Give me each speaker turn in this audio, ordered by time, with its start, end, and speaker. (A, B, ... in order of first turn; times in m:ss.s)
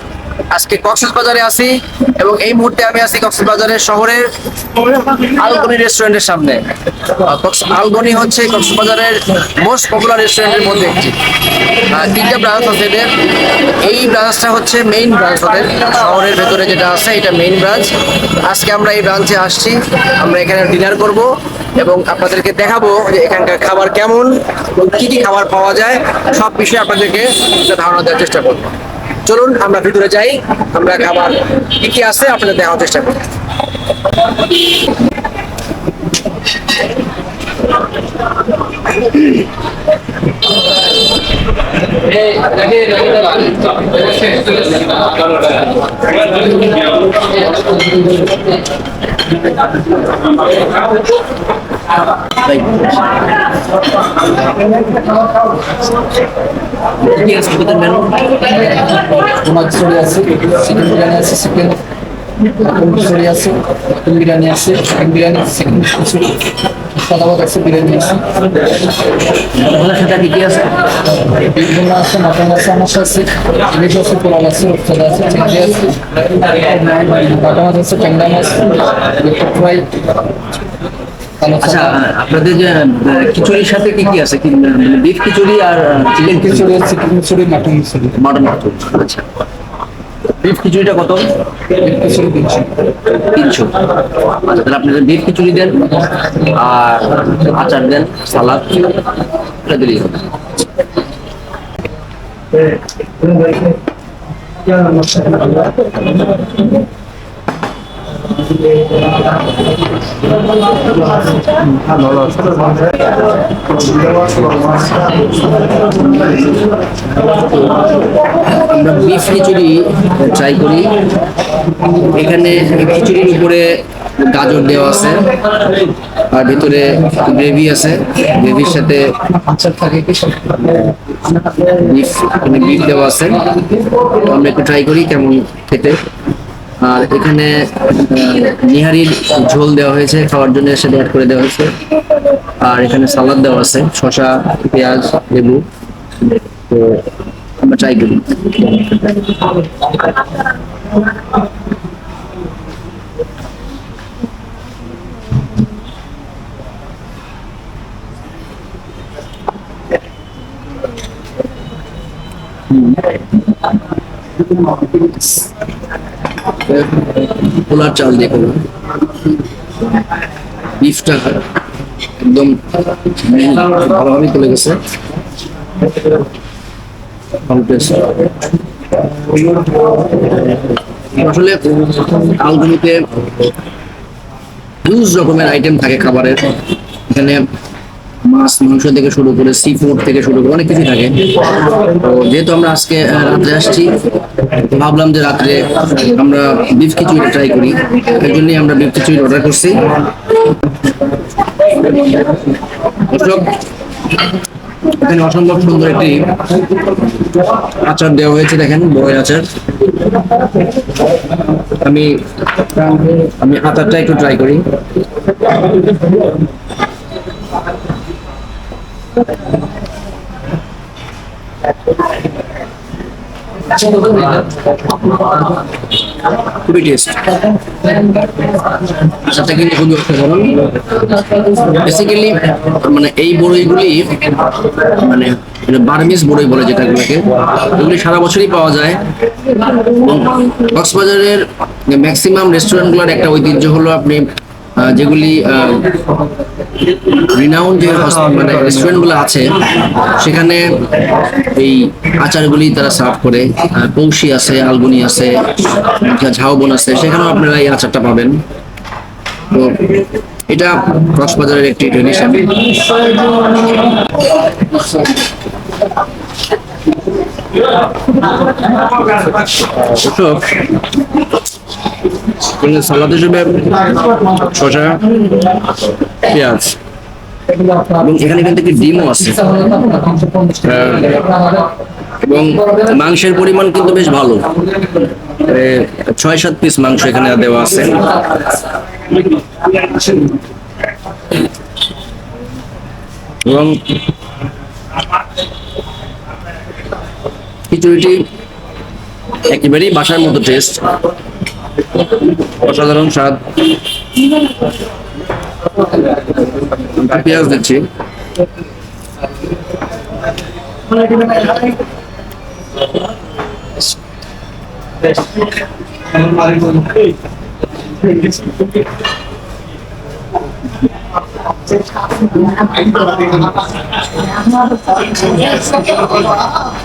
0:00.5-0:04.2 A
0:04.8-0:11.2 A
0:11.9-0:33.2 A
0:42.2-0:45.2 B
0:52.4-0:53.0 A
0:57.0-0:58.4 A
0:58.5-1:01.8 B
1:02.5-1:08.3 B
1:09.5-1:10.9 A
1:11.3-1:19.9 B
1:21.4-1:22.0 B
1:21.6-1:26.7 A
1:26.2-1:28.1 B
1:28.2-1:29.2 A
1:30.4-1:31.3 A
1:31.8-1:32.7 B
1:33.2-1:33.8 A
1:34.4-1:39.0 A
1:39.6-1:40.2 A
1:58.5-2:01.0 A
2:02.0-2:05.3 A
2:06.3-2:09.2 A
2:09.5-2:10.5 B
2:11.7-2:13.4 A
2:14.2-2:16.0 A
2:16.8-2:21.7 A
2:22.6-2:25.6 A
2:26.7-2:27.1 A
2:27.6-2:28.8 A
2:46.7-2:48.6 A
2:50.8-2:51.4 A
2:52.2-2:52.6 A
2:53.1-2:54.8 A
2:57.5-2:58.1 A
3:01.2-3:03.0 A
3:04.8-3:06.6 A
3:07.1-3:07.4 A
3:08.2-3:14.0 A
3:14.6-3:19.8 A
3:23.1-3:23.6 A
3:24.9-3:26.4 A
3:27.7-3:29.5 A
3:31.8-3:34.7 A
3:46.6-3:47.2 A
3:49.1-3:50.7 A
3:51.6-3:54.2 A
3:54.8-3:59.0 A
3:59.7-4:04.2 A
4:04.8-4:06.0 A
4:07.2-4:10.7 A
4:11.5-4:18.4 A
4:19.5-4:19.9 A
4:20.5-4:22.8 A
4:29.7-4:30.6 A
4:32.5-4:35.1 A
4:36.2-4:36.8 A
4:37.9-4:39.6 A
4:39.6-4:40.6 B
4:40.6-4:41.5 A
4:42.2-4:48.2 A
4:53.4-4:53.8 A
4:57.7-4:58.2 A
4:59.5-5:00.8 A
5:02.5-5:03.4 A
5:06.8-5:07.8 A